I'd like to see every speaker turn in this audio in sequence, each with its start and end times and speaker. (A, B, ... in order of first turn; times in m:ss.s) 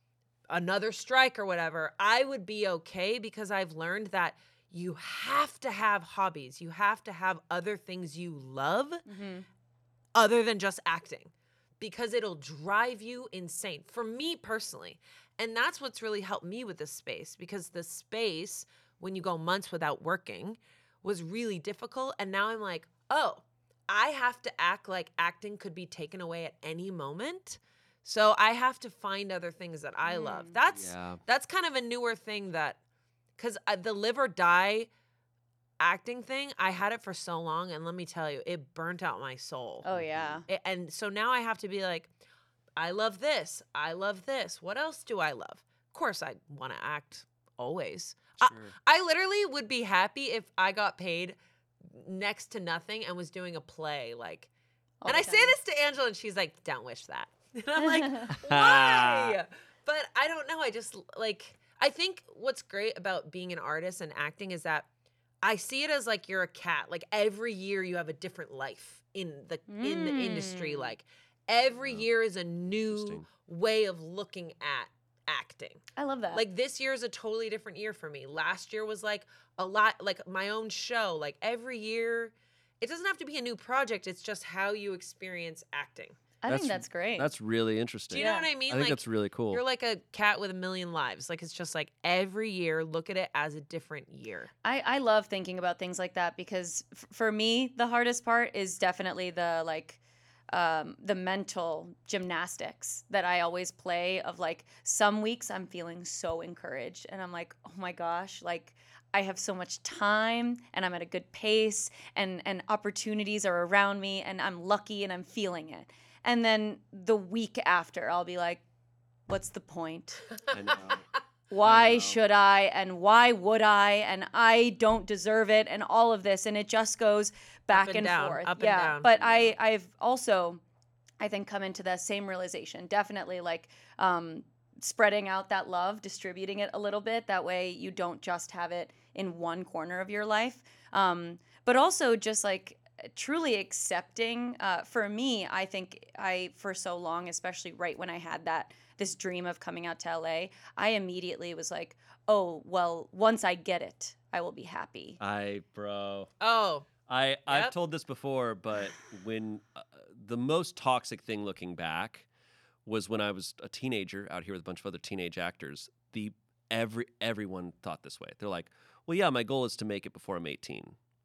0:00.5-0:09.0 A
0:09.1-0:09.5 B
0:10.2-0:32.8 A
0:30.0-0:30.6 B
0:30.7-0:31.2 C
0:33.4-0:34.9 A
0:35.8-0:39.9 A
0:39.8-0:40.5 B
0:39.9-0:40.4 C
0:40.5-0:42.1 A
0:42.8-0:54.5 A
0:48.4-0:48.7 C
0:55.0-0:55.6 B
0:55.1-1:04.9 A
0:57.8-0:58.3 B
0:58.3-0:59.4 C
1:05.4-1:15.8 A
1:09.7-1:10.9 B
1:11.8-1:12.1 C
1:12.9-1:13.3 C
1:16.0-1:16.4 B
1:16.3-1:26.2 A
1:26.4-1:27.3 B
1:26.5-1:29.6 C
1:28.1-1:34.5 A
1:28.2-1:28.5 B
1:34.6-1:58.6 B
1:59.3-2:00.4 B
2:00.5-2:01.0 C
2:01.5-2:10.6 B
2:01.6-2:02.2 C
2:07.7-2:09.1 A
2:09.1-2:09.6 C
2:11.2-2:35.2 B
2:35.2-2:36.3 C
2:36.4-2:36.9 A
2:37.1-2:42.3 C
2:37.5-2:37.7 A
2:42.9-2:51.0 C